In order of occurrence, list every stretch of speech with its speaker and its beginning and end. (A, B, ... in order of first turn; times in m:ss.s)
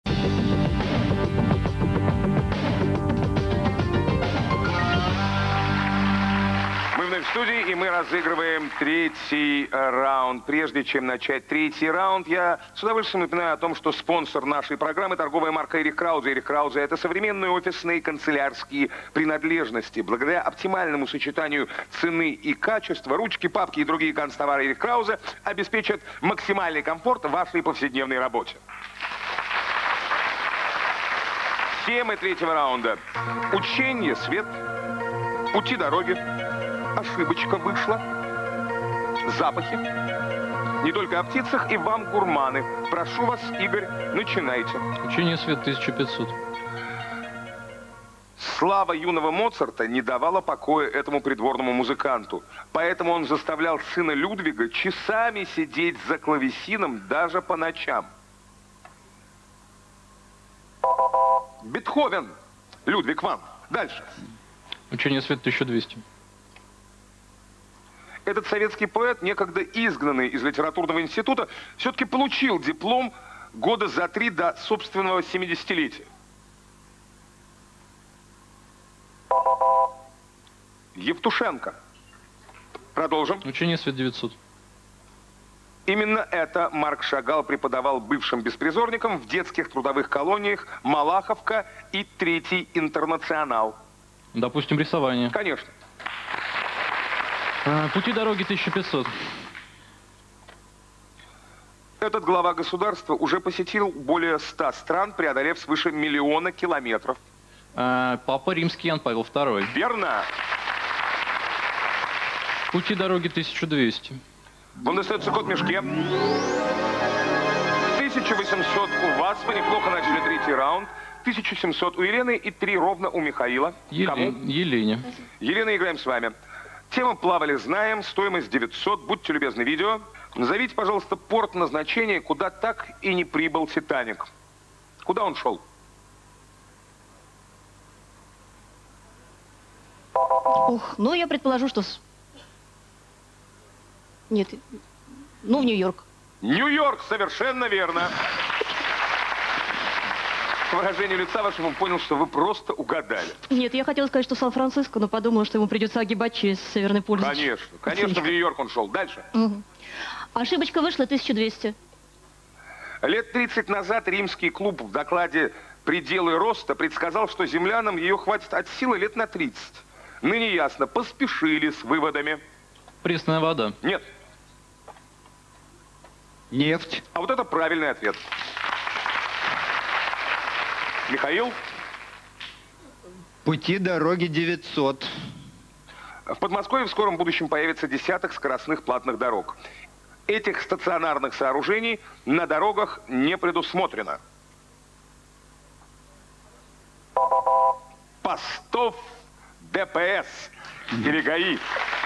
0:06.9-0:28.6 A
0:31.7-0:34.5 A
0:35.5-0:36.2 A
0:36.9-0:38.0 A
0:39.2-0:39.8 A
0:40.8-0:44.8 A
0:45.0-0:46.3 B
0:48.4-0:58.1 A
1:01.6-1:02.3 A
1:02.8-1:04.1 A
1:04.9-1:06.0 B
1:08.2-1:16.1 A
1:21.0-1:21.8 A
1:22.9-1:23.4 A
1:23.4-1:24.3 B
1:25.9-1:33.8 A
1:34.3-1:35.3 B
1:35.3-1:35.7 A
1:37.6-1:39.1 B
1:42.0-1:47.2 A
1:47.7-1:49.7 B
1:49.7-1:50.3 A
1:52.7-1:54.2 B
1:54.8-1:55.9 A
1:57.9-2:04.4 A
2:03.9-2:05.1 B
2:05.4-2:06.3 A
2:06.9-2:14.3 A
2:15.0-2:15.6 A
2:20.6-2:22.0 C
2:24.3-2:24.6 C
2:25.4-2:26.0 C
2:26.4-2:28.2 A
2:30.7-2:33.4 A
2:33.5-2:38.3 C
2:37.2-2:39.2 A
2:39.3-2:39.6 C
2:40.3-2:41.7 C
2:43.0-2:52.4 A
2:53.0-2:53.8 B
2:56.5-2:57.0 D
2:57.1-2:58.2 A
3:01.1-3:01.6 A
3:03.4-3:05.1 D
3:06.3-3:09.6 A
3:10.3-3:14.2 A
3:18.2-3:19.0 A
3:19.6-3:21.6 A